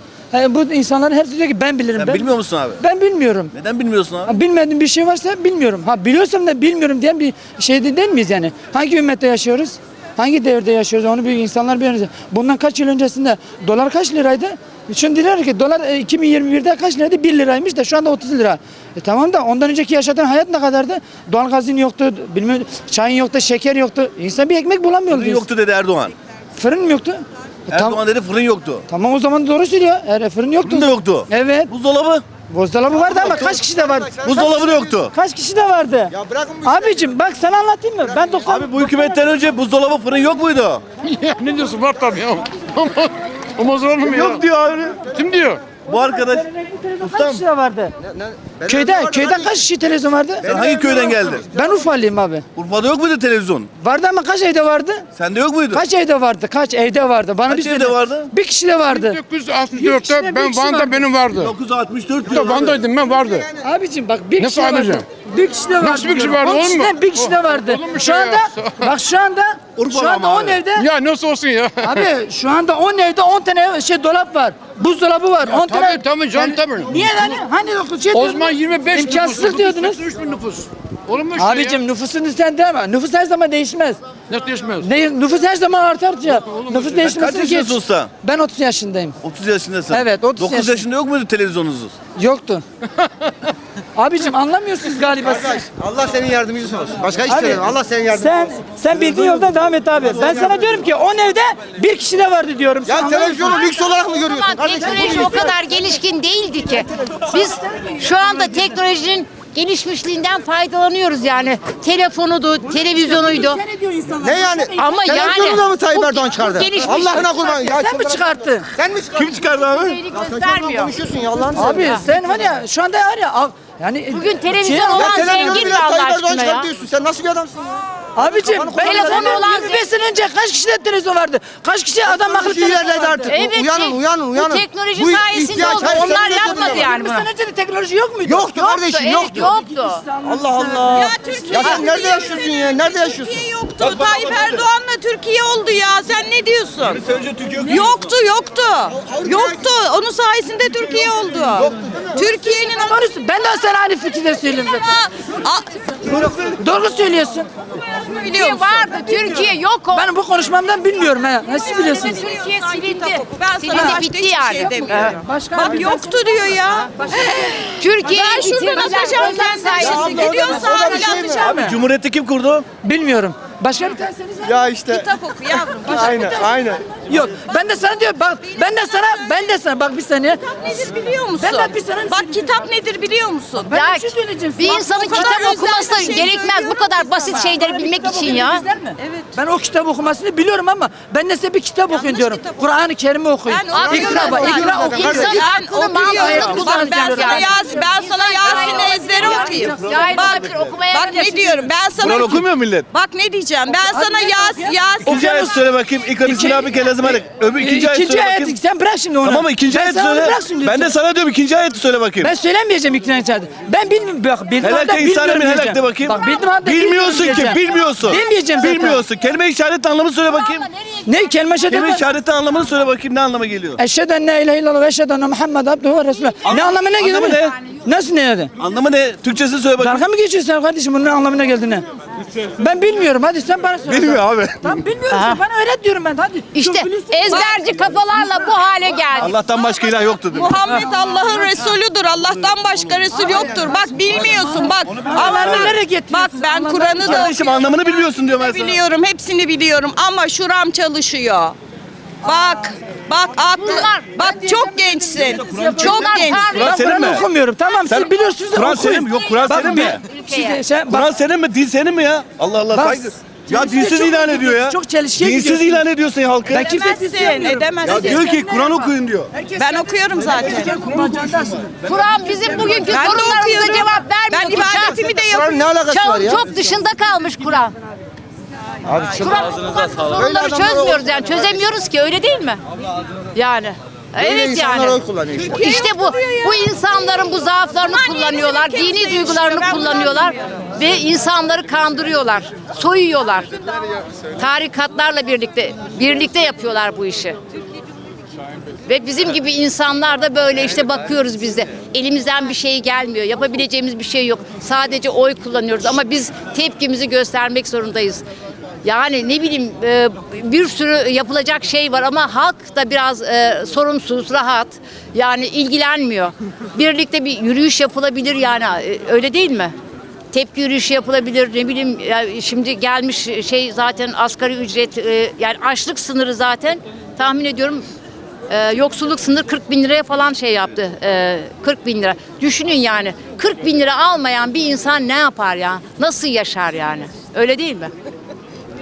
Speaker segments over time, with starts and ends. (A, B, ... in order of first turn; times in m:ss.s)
0:00.3-0:03.5 A
0:02.0-0:02.8 B
0:03.5-0:04.3 B
0:04.2-0:25.4 A
0:25.1-0:26.1 B
0:26.6-0:28.0 A
0:27.7-0:28.8 B
0:28.9-0:31.7 A
0:30.6-0:32.2 B
0:32.5-0:36.1 A
0:32.9-0:34.7 C
0:34.2-0:35.1 B
0:36.1-0:37.1 C
0:36.6-0:39.2 A
0:38.0-0:38.6 C
0:38.5-0:40.8 B
0:41.0-0:44.4 D
0:43.9-0:45.1 B
0:45.1-0:45.7 D
0:45.7-0:46.5 B
0:45.9-0:47.9 A
0:47.0-0:47.4 B
0:48.0-0:49.7 C
0:48.7-0:50.5 A
0:50.4-0:51.8 C
0:50.4-0:51.4 B
0:51.5-0:52.4 A
0:52.6-0:53.7 B
0:53.8-0:55.0 A
0:55.2-0:55.8 B
0:55.7-1:01.1 A
0:57.5-0:58.3 B
0:58.9-1:01.5 D
1:01.3-1:02.9 B
1:02.3-1:03.5 D
1:02.9-1:03.7 C
1:03.6-1:10.9 A
1:04.4-1:05.0 D
1:05.8-1:08.7 D
1:09.8-1:10.7 B
1:10.7-1:12.0 D
1:11.8-1:20.0 A
1:15.4-1:17.4 D
1:18.1-1:21.8 D
1:21.4-1:24.0 A
1:24.3-1:24.9 D
1:24.8-1:29.2 A
1:26.6-1:27.0 D
1:27.0-1:28.1 B
1:29.2-1:31.9 B
1:29.9-1:30.8 A
1:32.2-1:32.6 A
1:34.0-1:35.6 A
1:35.2-1:38.4 C
1:37.3-1:43.7 A
1:40.2-1:40.5 C
1:42.8-1:45.5 C
1:43.4-1:53.6 E
1:44.8-1:45.6 A
1:47.7-1:48.6 A
1:52.8-1:55.5 A
1:54.2-1:59.4 C
1:54.8-1:57.4 E
1:56.8-1:58.7 A
1:59.2-2:00.0 B
1:59.9-2:00.9 E
2:00.1-2:02.0 C
2:01.6-2:05.7 A
2:01.7-2:02.0 E
2:04.1-2:06.7 E
2:04.9-2:09.4 C
2:08.2-2:13.3 A
2:08.8-2:09.8 E
2:12.0-2:16.9 C
2:13.3-2:17.3 E
2:15.6-2:18.5 A
2:18.2-2:19.5 C
2:18.5-2:20.0 E
2:19.3-2:21.8 A
2:20.2-2:23.5 C
2:20.9-2:27.0 F
2:21.5-2:21.8 E
2:23.8-2:24.6 B
2:26.9-2:27.9 B
2:27.6-2:33.0 F
2:29.0-2:29.4 C
2:31.6-2:32.1 C
2:32.8-2:34.8 A
2:34.4-2:36.1 F
2:36.2-2:36.5 B
2:36.4-2:37.5 A
2:37.8-2:38.9 F
2:38.3-2:40.1 E
2:39.1-2:42.2 A
2:41.6-2:51.6 F
2:41.9-2:45.2 E
2:43.7-2:44.0 A
2:44.9-2:46.1 A
2:47.0-2:47.6 A
2:47.8-2:50.3 E
2:49.8-2:51.6 C
2:49.9-2:51.8 A
2:51.4-2:52.6 B
2:52.8-2:54.6 A
2:54.4-2:55.1 C
2:54.9-2:56.1 F
2:55.8-3:00.4 A
2:55.9-2:56.8 C
2:58.4-2:59.2 F
3:00.4-3:03.8 F
3:01.4-3:02.4 A
3:03.6-3:05.4 A
3:03.7-3:04.1 E
3:04.6-3:08.6 E
3:04.6-3:07.5 F
3:07.0-3:15.4 A
3:09.0-3:09.3 F
3:11.9-3:12.8 F
3:13.5-3:25.1 F
3:13.7-3:21.4 E
3:13.9-3:15.4 C
3:16.1-3:17.8 A
3:18.4-3:20.5 A
3:22.0-3:22.9 B
3:23.9-3:25.6 A
3:25.1-3:28.6 B
3:26.2-3:30.9 A
3:29.2-3:32.3 B
3:32.2-3:39.0 A
3:34.6-3:40.7 B
3:41.0-3:42.0 A
3:41.7-3:43.8 B
3:43.8-3:48.5 A
3:46.4-3:47.6 B
3:48.6-3:50.0 B
3:49.8-3:51.8 A
3:52.6-3:58.0 A
3:53.9-3:54.6 B
3:55.1-3:55.4 E
3:56.5-3:59.4 E
3:57.3-3:57.5 F
3:59.2-4:00.6 B
4:00.3-4:11.6 F
4:00.6-4:00.9 A
4:03.1-4:07.3 A
4:04.9-4:05.8 B
4:07.0-4:08.8 B
4:12.2-4:16.5 F
4:13.4-4:14.2 E
4:14.2-4:21.1 A
4:15.4-4:17.2 B
4:15.9-4:17.1 E
4:17.8-4:20.0 B
4:20.0-4:20.6 E
4:20.9-4:26.7 B
4:22.7-4:25.8 A
4:26.5-4:31.7 A
4:26.7-4:28.6 F
4:27.8-4:29.3 B
4:29.6-4:30.9 F
4:31.8-4:35.0 E
4:32.8-4:35.6 F
4:34.9-4:36.4 C
4:35.9-4:37.8 E
4:38.8-4:41.6 C
4:39.1-4:42.6 E
4:43.3-4:45.0 E
4:44.2-4:45.6 C
4:45.4-4:46.7 F
4:45.5-4:57.4 E
4:47.8-4:50.5 F
4:58.9-5:08.2 E
5:08.8-5:19.7 E
5:20.3-5:27.8 E
5:28.5-5:37.9 E